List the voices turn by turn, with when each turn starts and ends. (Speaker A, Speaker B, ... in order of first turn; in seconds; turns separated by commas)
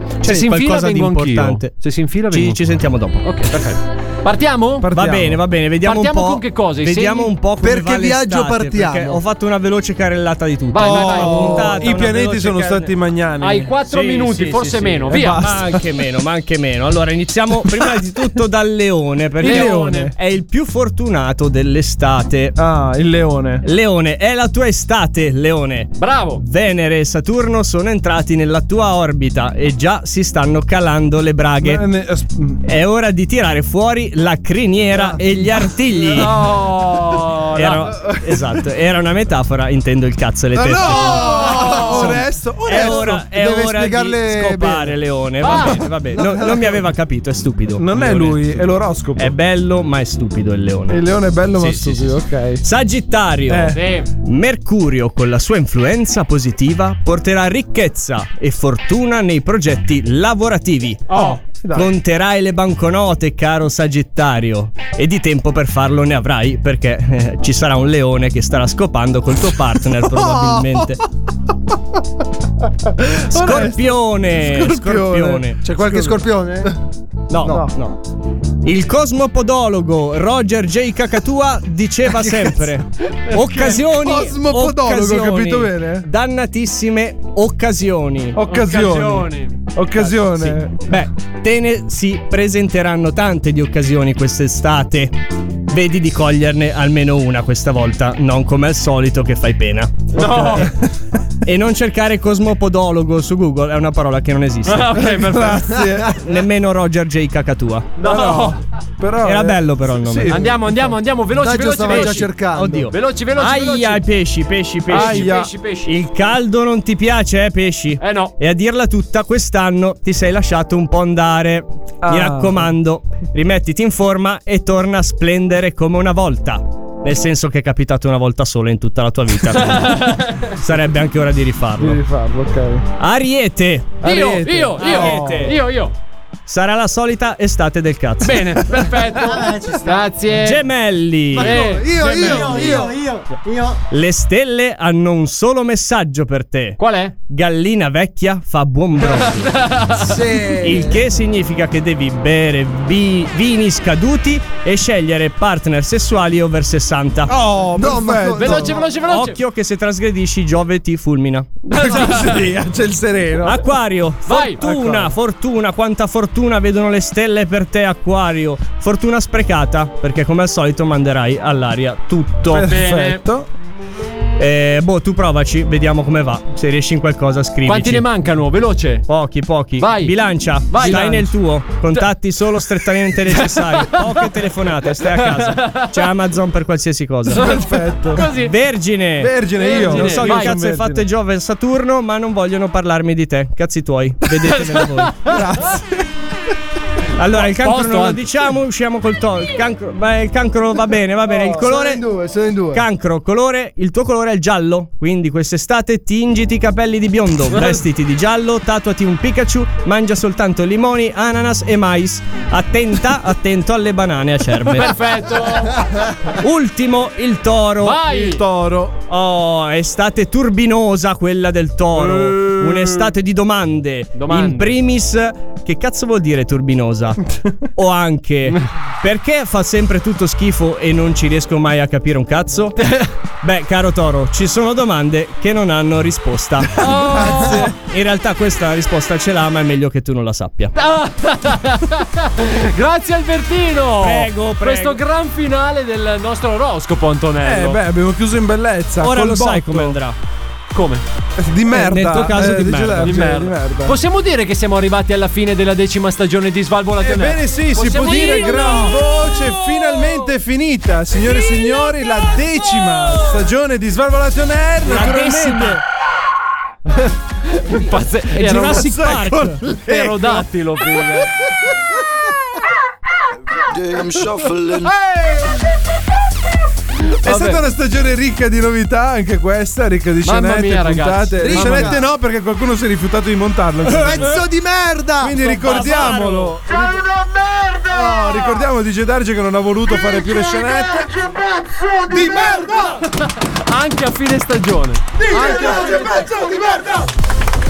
Speaker A: 0.2-3.4, Speaker B: 0.2-4.9, Speaker C: 4.8-5.4, Speaker A: 4.9-12.9, Speaker B: 5.8-7.3, Speaker D: 7.6-9.2, Speaker B: 10.7-11.7, Speaker C: 10.8-13.7, Speaker B: 13.4-15.4, Speaker A: 13.8-22.6, Speaker C: 15.1-15.8, Speaker B: 19.4-20.1, Speaker C: 19.4-20.1, Speaker C: 22.6-23.6, Speaker A: 23.6-31.8, Speaker B: 26.0-26.4, Speaker C: 31.6-32.6, Speaker A: 32.7-36.5, Speaker B: 36.1-37.9, Speaker A: 37.5-48.6, Speaker C: 40.5-43.2, Speaker B: 41.2-41.9, Speaker D: 41.3-45.0, Speaker B: 45.4-45.8, Speaker D: 46.2-46.7, Speaker C: 47.8-49.4, Speaker A: 49.2-51.0, Speaker C: 50.9-52.6, Speaker B: 51.6-52.1, Speaker A: 52.6-71.0, Speaker C: 53.5-53.8, Speaker B: 53.7-54.1, Speaker B: 61.1-61.4, Speaker C: 61.1-61.9, Speaker A: 73.3-76.1, Speaker D: 74.5-76.7, Speaker A: 77.3-78.0, Speaker D: 77.4-77.7, Speaker A: 78.6-88.4, Speaker B: 83.3-83.8, Speaker C: 84.1-86.0, Speaker D: 84.1-85.5, Speaker C: 88.4-90.8, Speaker B: 88.5-89.7, Speaker A: 90.0-95.1, Speaker A: 95.7-100.7, Speaker B: 100.1-100.7, Speaker C: 100.2-100.7, Speaker A: 101.4-105.1, Speaker B: 104.7-105.9, Speaker C: 105.1-106.2, Speaker A: 106.2-107.9, Speaker B: 108.0-108.6, Speaker C: 108.0-110.5, Speaker A: 109.2-110.5, Speaker B: 110.3-112.3, Speaker D: 111.4-112.9, Speaker A: 111.8-132.0, Speaker B: 112.9-114.0, Speaker B: 114.9-116.0, Speaker C: 114.9-115.5, Speaker B: 118.0-118.3, Speaker C: 122.0-122.7, Speaker B: 129.6-130.6, Speaker C: 131.8-132.9, Speaker A: 133.0-134.0, Speaker C: 134.0-135.6, Speaker B: 134.0-135.9, Speaker A: 134.8-135.6, Speaker A: 136.5-139.0, Speaker B: 138.2-140.6, Speaker E: 139.2-140.1, Speaker A: 140.3-142.9, Speaker B: 141.3-141.9, Speaker D: 141.3-142.9, Speaker E: 142.0-143.8, Speaker A: 143.9-149.6, Speaker B: 146.8-147.2, Speaker B: 149.0-150.2, Speaker D: 150.0-151.0, Speaker A: 150.6-157.3, Speaker C: 157.3-158.7, Speaker D: 157.8-158.8, Speaker B: 158.4-159.4, Speaker A: 159.0-161.5, Speaker B: 161.7-162.5, Speaker C: 161.7-163.7, Speaker A: 163.4-172.7, Speaker B: 164.3-165.1, Speaker C: 172.5-173.5, Speaker B: 172.5-173.2, Speaker A: 174.4-178.1, Speaker B: 177.7-179.1, Speaker A: 179.1-187.6, Speaker B: 179.8-180.2, Speaker B: 180.7-181.3, Speaker C: 180.8-181.2, Speaker B: 183.7-184.2, Speaker B: 185.0-185.9, Speaker B: 187.3-188.5, Speaker C: 187.3-188.3, Speaker A: 188.3-195.4, Speaker C: 189.2-191.1, Speaker B: 189.6-190.6, Speaker B: 194.5-195.4, Speaker C: 195.3-196.0, Speaker A: 197.2-202.0, Speaker B: 197.3-198.4, Speaker D: 201.3-202.8, Speaker A: 202.7-214.9, Speaker B: 207.5-207.8, Speaker B: 214.7-215.9, Speaker A: 216.4-218.0, Speaker B: 217.8-218.4, Speaker C: 218.1-219.0, Speaker A: 219.1-227.2, Speaker B: 222.0-223.0, Speaker B: 224.2-224.8, Speaker A: 227.8-232.8, Speaker B: 232.8-233.1, Speaker A: 233.4-240.7, Speaker B: 236.8-237.7, Speaker D: 237.3-237.7, Speaker B: 240.8-247.8, Speaker A: 244.0-245.0, Speaker C: 247.4-250.0, Speaker A: 249.0-250.2, Speaker B: 250.7-251.0, Speaker C: 251.4-254.0, Speaker A: 251.7-253.2, Speaker B: 253.0-259.0, Speaker C: 257.0-265.8, Speaker A: 264.8-265.8, Speaker B: 267.0-268.9, Speaker A: 268.4-269.7, Speaker C: 268.4-270.5, Speaker B: 269.8-271.3, Speaker C: 277.2-284.3, Speaker B: 277.3-277.6, Speaker B: 280.2-282.0, Speaker D: 281.4-282.0, Speaker D: 283.9-285.5, Speaker A: 283.9-284.4, Speaker C: 285.2-287.0, Speaker A: 285.4-286.6, Speaker C: 287.9-291.1, Speaker D: 287.9-288.5, Speaker D: 291.6-293.0, Speaker C: 292.1-292.7, Speaker B: 293.2-296.3, Speaker D: 295.2-297.1